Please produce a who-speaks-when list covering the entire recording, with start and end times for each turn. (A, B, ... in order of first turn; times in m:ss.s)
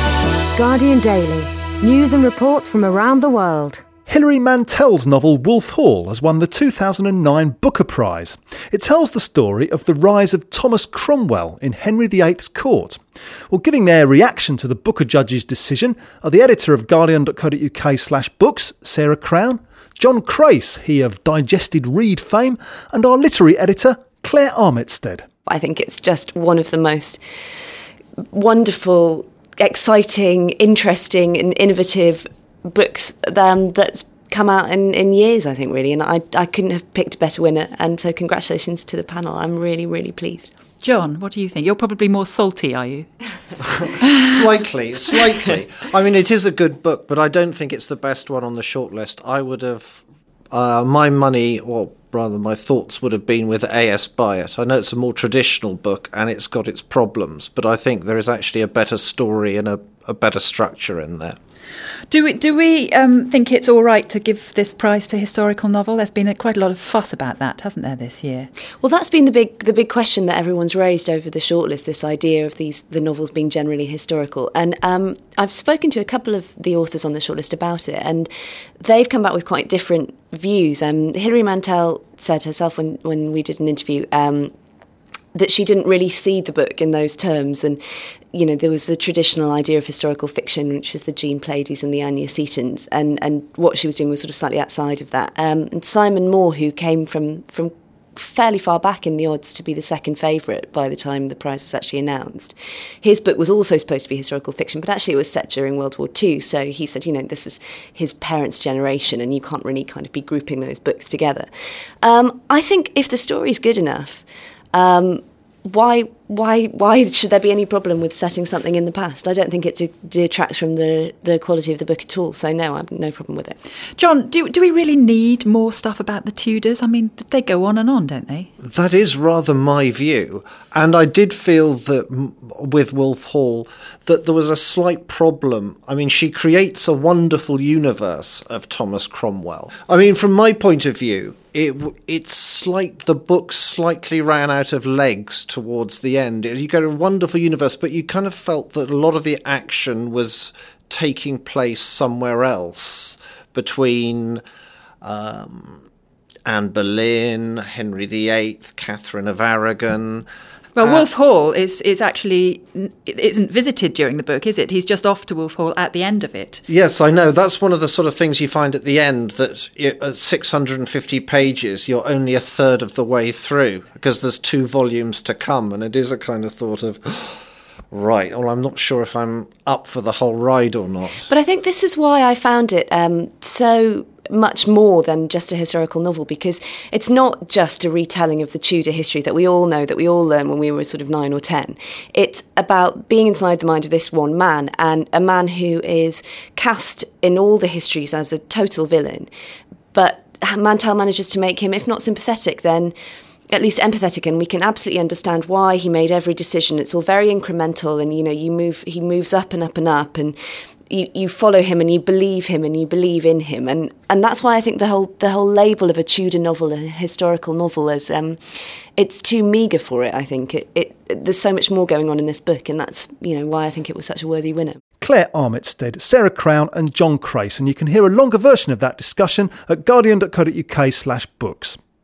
0:00.6-0:03.8 A
0:04.1-0:25.3 B
0:25.4-0:27.2 C
0:28.3-0:40.5 C
0:40.8-0:43.1 D
0:44.2-1:01.4 E
1:02.1-1:08.5 D
1:08.8-1:24.5 C
1:25.3-1:27.8 C
1:28.3-1:51.5 C
1:52.0-2:03.6 C
2:04.0-2:08.5 D
2:08.6-2:34.4 E
2:35.0-2:35.8 E
2:36.4-2:40.3 E
2:40.8-2:46.6 D
2:40.8-2:41.1 E
2:46.7-2:57.4 E
2:57.9-3:01.3 E
3:01.3-3:19.3 C
3:19.9-3:22.9 C
3:23.5-3:30.4 C
3:30.9-3:38.4 C
3:39.0-3:44.8 C
3:45.0-3:51.8 B